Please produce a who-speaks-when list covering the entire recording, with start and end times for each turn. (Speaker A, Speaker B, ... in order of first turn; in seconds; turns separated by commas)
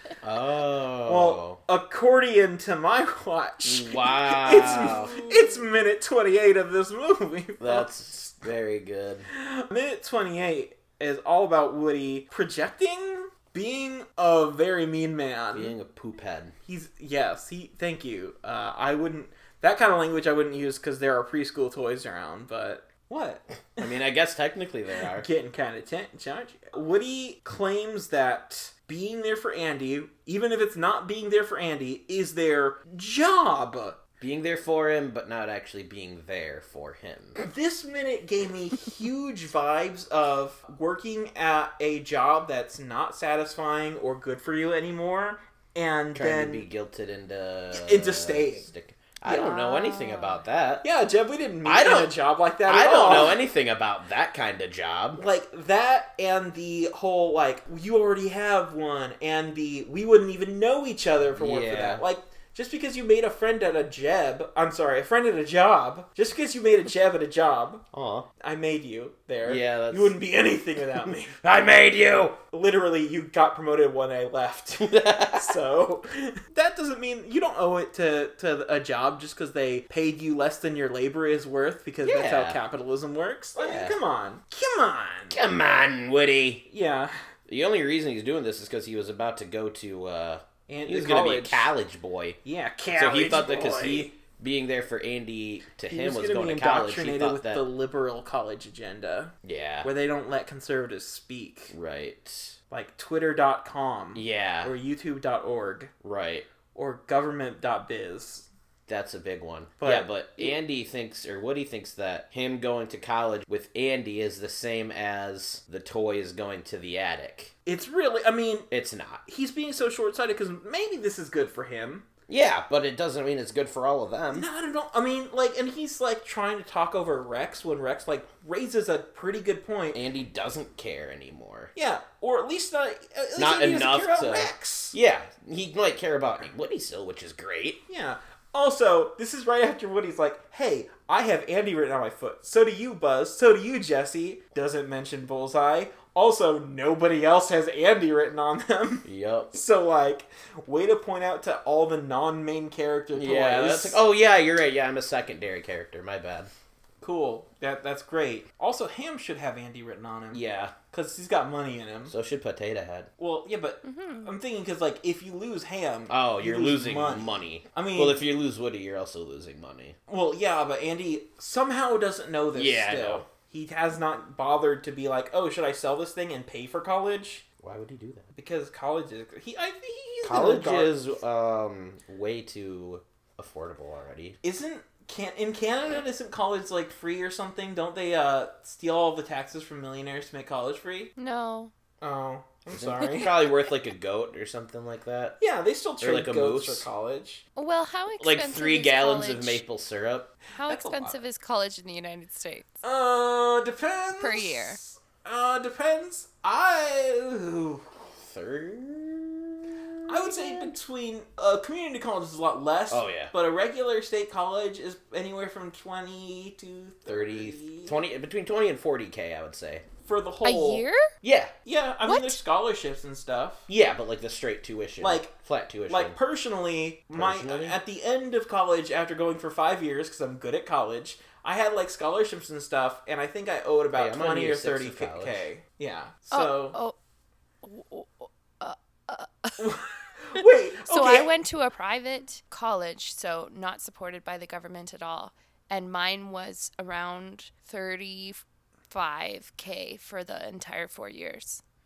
Speaker A: 0.2-1.6, Speaker B: 1.0-7.9, Speaker A: 3.6-5.2, Speaker A: 7.6-9.3, Speaker B: 9.3-15.7, Speaker A: 15.5-16.5, Speaker B: 16.6-23.9, Speaker A: 23.8-25.3, Speaker B: 25.1-34.0, Speaker A: 34.2-37.4, Speaker B: 37.4-46.7, Speaker A: 46.1-50.9, Speaker B: 47.7-48.7, Speaker B: 49.2-49.8, Speaker C: 49.7-50.4, Speaker B: 50.8-53.4, Speaker A: 51.6-55.2, Speaker B: 55.1-67.8, Speaker A: 61.4-62.0, Speaker A: 67.9-68.3, Speaker B: 68.4-71.4, Speaker A: 69.4-70.2, Speaker A: 70.9-72.4, Speaker B: 72.5-85.4, Speaker A: 74.8-75.6, Speaker A: 82.0-82.6, Speaker A: 83.5-84.0, Speaker A: 85.3-86.6, Speaker B: 86.7-87.1, Speaker A: 87.5-92.4, Speaker B: 90.7-91.7, Speaker B: 92.4-94.1, Speaker A: 92.9-97.7, Speaker B: 95.9-101.7, Speaker A: 99.4-99.9, Speaker A: 101.7-102.5, Speaker B: 102.7-105.9, Speaker A: 104.1-104.7, Speaker A: 106.0-106.5, Speaker B: 106.7-108.5, Speaker A: 108.9-117.5, Speaker B: 109.8-110.5, Speaker B: 117.6-118.7, Speaker A: 118.7-119.2, Speaker B: 119.2-122.0, Speaker A: 122.3-124.5, Speaker B: 124.3-130.0, Speaker A: 129.9-131.7, Speaker B: 131.7-134.9, Speaker A: 133.3-137.8, Speaker B: 137.9-154.0, Speaker A: 149.0-149.6, Speaker A: 153.1-156.5, Speaker B: 157.0-162.1, Speaker A: 160.3-160.7, Speaker A: 162.1-163.1, Speaker B: 163.2-168.2, Speaker C: 163.8-164.3, Speaker A: 166.1-170.0, Speaker B: 170.1-177.4, Speaker A: 172.5-173.2, Speaker A: 177.6-178.2, Speaker B: 178.3-181.0, Speaker A: 180.2-184.4, Speaker B: 184.4-191.1, Speaker C: 191.2-191.7, Speaker B: 192.0-193.4, Speaker A: 192.7-195.4, Speaker B: 195.4-197.4, Speaker A: 196.0-196.8, Speaker C: 197.6-199.6, Speaker A: 198.2-200.3, Speaker C: 200.5-202.7, Speaker B: 200.7-201.2, Speaker B: 202.8-207.8, Speaker C: 204.2-204.8, Speaker A: 208.2-210.7, Speaker B: 210.1-217.9, Speaker A: 212.9-213.3, Speaker A: 217.1-219.8, Speaker B: 220.0-220.8, Speaker C: 220.4-221.1, Speaker A: 221.2-221.5, Speaker B: 221.6-223.7, Speaker C: 222.0-222.4, Speaker A: 223.7-226.2, Speaker B: 225.0-225.3, Speaker B: 225.9-236.8, Speaker A: 227.1-227.8, Speaker A: 233.9-235.4, Speaker C: 236.3-236.9, Speaker C: 237.6-239.7, Speaker B: 239.6-241.3, Speaker C: 240.3-251.6